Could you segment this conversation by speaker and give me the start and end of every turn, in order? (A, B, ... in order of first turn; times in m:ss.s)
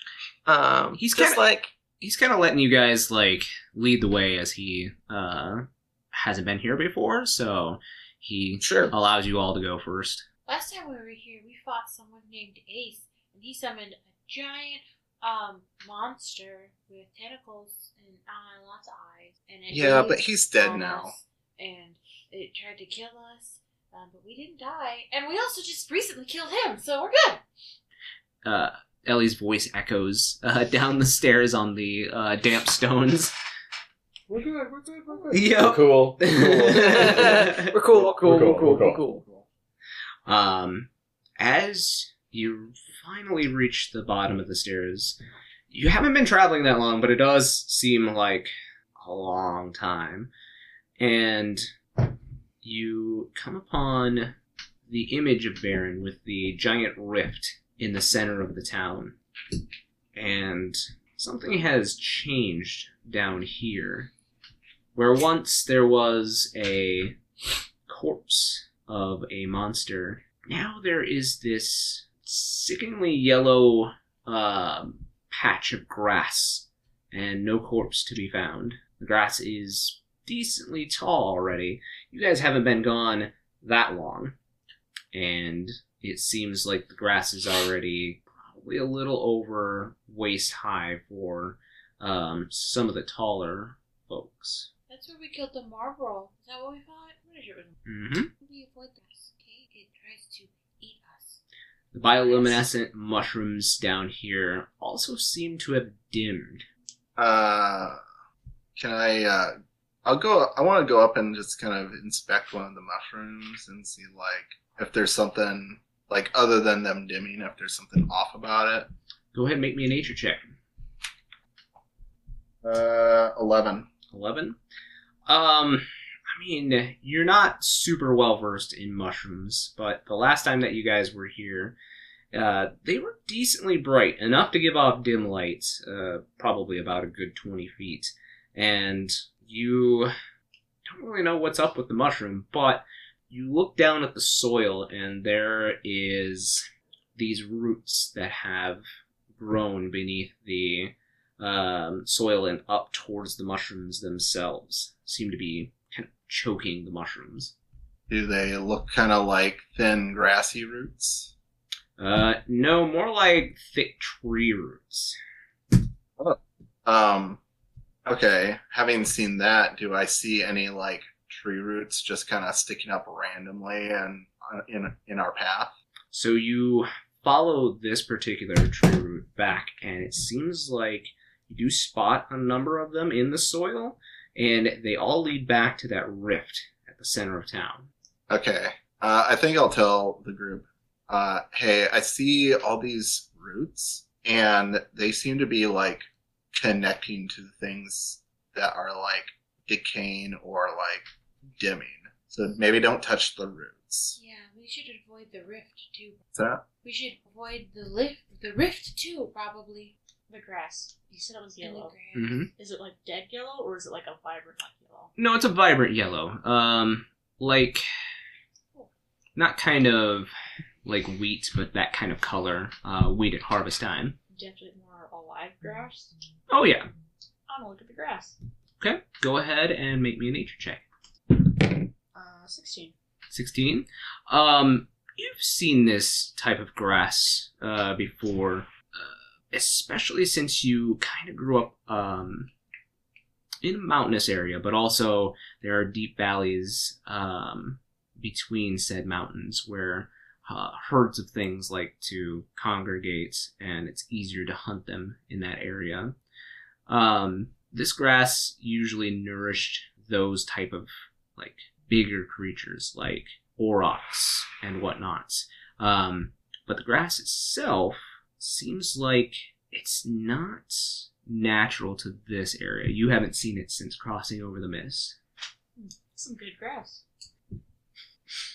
0:00.4-0:01.7 A
0:01.0-0:01.4 B
0:02.0-0:10.2 B
0:08.6-0:08.9 A
0:10.5-0:27.4 C
0:19.7-0:21.1 D
0:28.4-0:33.3 B
0:34.3-0:39.0 E
0:35.3-0:37.7 B
0:36.7-0:39.2 A
0:39.1-0:39.4 D
0:40.3-0:45.2 B
0:45.7-0:50.3 B
0:51.0-0:51.7 B
0:52.6-0:54.4 B
0:54.9-0:59.2 B
1:00.1-1:04.1 B
1:04.9-1:07.2 B
1:07.9-1:24.3 B
1:25.1-1:34.7 B
1:34.9-1:37.8 C
1:37.8-1:38.3 B
1:38.3-1:41.4 C
1:41.9-1:46.6 B
1:42.2-1:42.6 C
1:47.2-1:48.0 D
1:48.8-1:58.9 D
1:59.3-2:00.6 B
2:02.6-2:03.9 D
2:04.1-2:04.6 B
2:05.3-2:11.8 B
2:12.3-2:20.1 B
2:20.8-2:28.8 B
2:29.4-2:37.5 B
2:38.1-2:41.3 D
2:42.0-2:45.2 B
2:46.2-2:47.4 D
2:48.0-2:55.7 D
2:56.1-3:07.9 B
3:08.3-3:21.0 D
3:21.6-3:24.2 D
3:24.2-3:26.2 C
3:26.3-3:26.6 D
3:26.8-3:29.9 C
3:30.3-3:32.0 F
3:31.6-3:32.4 C
3:32.1-3:32.5 B
3:32.6-3:35.1 F
3:35.2-3:37.8 B
3:39.4-3:40.3 B
3:40.8-3:44.2 B
3:44.3-3:46.1 F
3:46.5-3:46.9 B
3:47.5-3:48.4 F
3:48.8-3:50.8 B
3:52.1-3:52.9 F
3:53.3-4:02.5 B
4:03.6-4:16.1 B
4:16.9-4:35.2 B
4:35.8-4:37.0 F